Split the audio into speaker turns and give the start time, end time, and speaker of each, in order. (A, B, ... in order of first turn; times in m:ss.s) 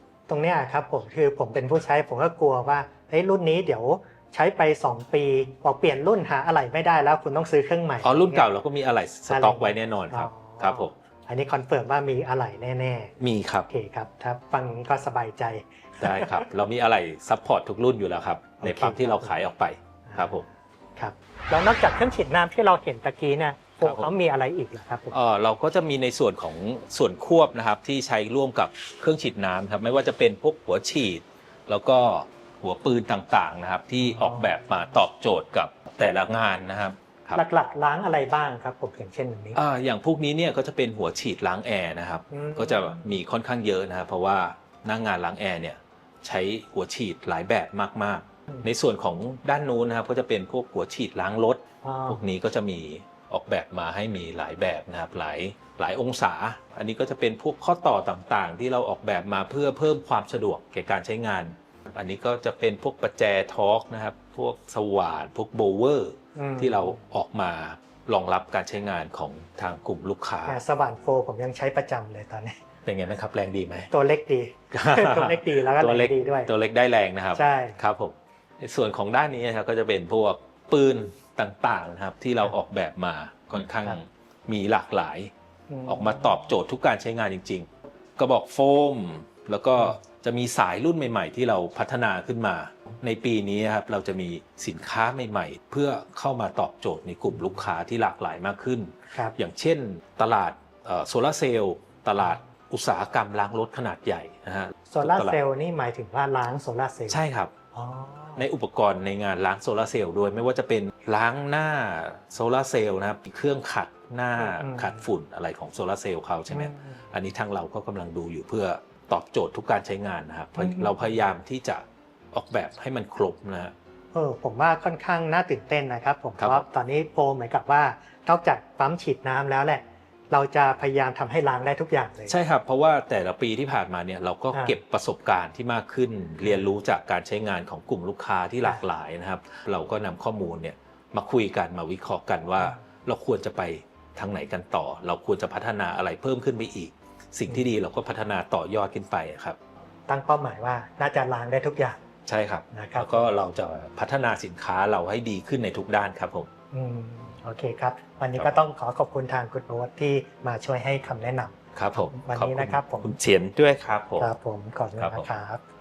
0:00.3-0:08.4 A
0:08.0-0:10.9 B
0:09.3-0:13.1 A
0:13.2-0:13.7 B
0:13.7-0:16.4 A
0:16.0-0:20.4 B
0:18.6-0:19.3 A
0:20.1-0:20.4 A
0:21.0-0:25.2 A
0:23.8-0:24.1 B
0:25.1-0:37.4 B
0:34.0-0:34.6 A
0:37.4-0:39.6 A
0:39.5-1:10.6 B
0:42.3-0:43.0 A
0:51.8-0:52.2 A
1:06.3-1:07.0 A
1:10.4-1:12.6 A
1:12.8-1:13.9 B
1:13.9-1:16.5 A
1:14.7-1:25.3 B
1:17.3-1:17.8 A
1:25.7-1:26.4 A
1:25.9-1:45.4 B
1:44.9-1:47.2 A
1:47.1-1:47.5 B
1:47.7-1:48.4 A
1:48.4-2:03.7 B
1:54.4-1:55.0 A
1:56.5-1:57.0 A
2:00.6-2:01.2 A
2:04.1-2:12.4 A
2:06.4-2:06.6 B
2:12.3-2:29.6 B
2:30.1-2:32.0 A
2:32.3-2:36.5 B
2:32.7-2:33.3 A
2:36.7-2:43.1 A
2:41.7-2:44.3 B
2:44.2-2:45.6 A
2:45.0-2:45.3 B